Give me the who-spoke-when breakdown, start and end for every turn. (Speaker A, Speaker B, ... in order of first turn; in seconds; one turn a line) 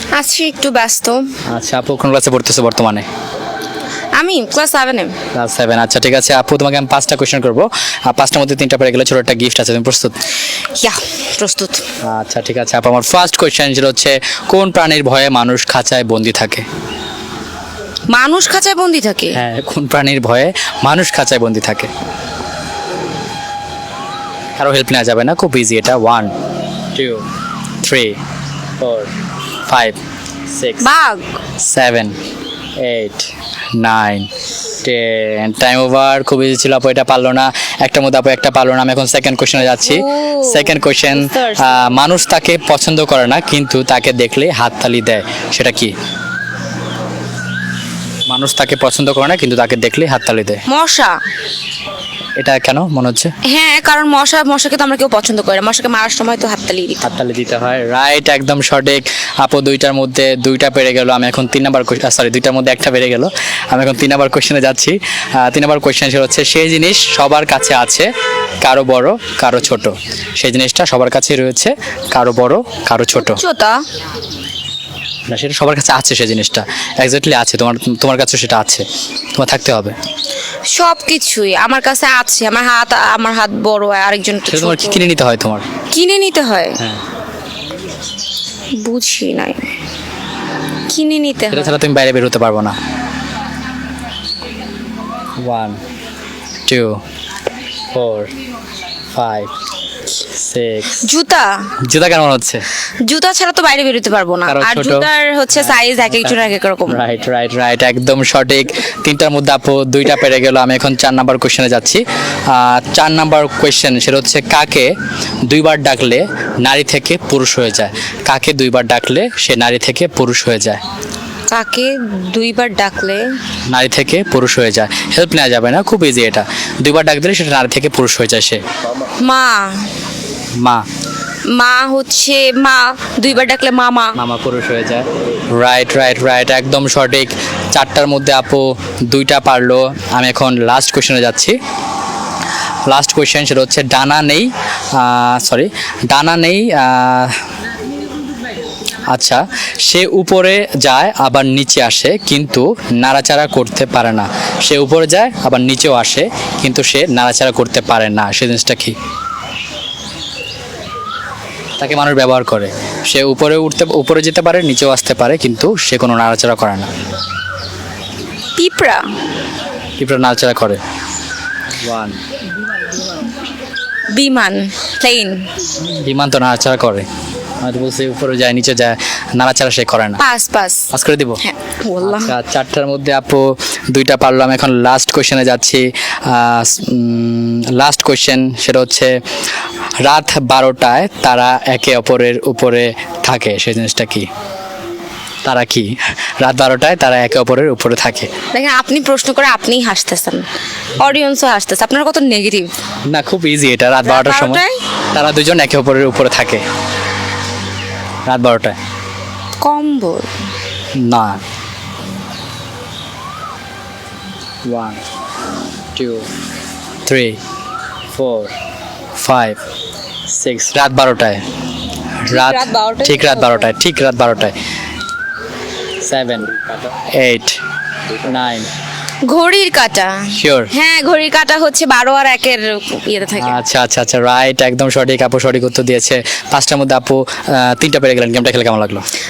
Speaker A: 0.1-1.4
Speaker B: 1.5-3.1
Speaker A: 4.2-5.2
Speaker B: 5.3-10.2
Speaker A: 10.6-11.9
Speaker B: 12.0-16.6
Speaker A: 18.1-19.4
Speaker B: 19.3-21.9
Speaker B: 24.6-26.3
Speaker B: 26.9-27.2
Speaker B: 27.8-28.2
Speaker B: 28.8-29.1
Speaker B: 29.7-30.0
Speaker B: 30.5-30.9
Speaker A: 30.8-31.3
Speaker B: 31.6-32.2
Speaker B: 32.8-34.3
Speaker B: 34.8-45.9
Speaker A: 39.6-41.9
Speaker B: 48.3-50.6
Speaker A: 50.7-51.2
Speaker B: 52.4-53.3
Speaker A: 53.5-57.1
Speaker B: 57.0-68.1
Speaker B: 68.6-73.4
Speaker A: 73.2-73.8
Speaker B: 75.3-78.9
Speaker B: 79.4-80.0
Speaker A: 80.7-85.1
Speaker B: 84.5-85.7
Speaker A: 85.9-86.8
Speaker A: 88.8-89.7
Speaker A: 90.9-91.7
Speaker B: 91.5-92.8
Speaker B: 95.4-95.8
Speaker B: 96.7-97.0
Speaker B: 97.9-98.3
Speaker B: 99.1-99.5
Speaker B: 100.2-101.1
Speaker A: 101.0-101.7
Speaker B: 101.8-102.7
Speaker A: 103.0-107.0
Speaker B: 104.5-114.9
Speaker B: 115.5-120.8
Speaker A: 121.5-123.3
Speaker B: 123.7-128.6
Speaker A: 129.2-129.9
Speaker B: 130.6-130.8
Speaker A: 131.5-134.2
Speaker B: 134.2-141.6
Speaker B: 142.9-147.4
Speaker B: 149.1-158.9
Speaker B: 161.8-166.9
Speaker A: 168.6-169.1
Speaker B: 170.0-170.8
Speaker B: 171.8-172.2
Speaker A: 174.1-175.5
Speaker B: 176.0-177.1
Speaker B: 177.6-180.2
Speaker A: 180.2-180.9
Speaker B: 180.9-181.4
Speaker A: 181.4-182.3
Speaker B: 182.0-189.2
Speaker B: 190.0-194.3
Speaker B: 195.4-198.3
Speaker A: 198.5-200.5
Speaker A: 201.0-202.7
Speaker B: 203.1-206.6
Speaker A: 204.0-204.8
Speaker B: 208.3-208.8
Speaker A: 209.6-210.3
Speaker B: 211.0-211.4
Speaker B: 214.7-215.0
Speaker B: 215.9-216.2
Speaker B: 217.1-217.4
Speaker B: 218.2-218.5
Speaker B: 219.2-219.6
Speaker B: 220.3-221.4
Speaker B: 222.2-224.6
Speaker A: 222.3-223.7
Speaker B: 226.0-226.6
Speaker B: 227.1-227.6
Speaker B: 228.2-228.7
Speaker A: 229.2-233.6
Speaker B: 230.3-230.7
Speaker B: 233.4-239.1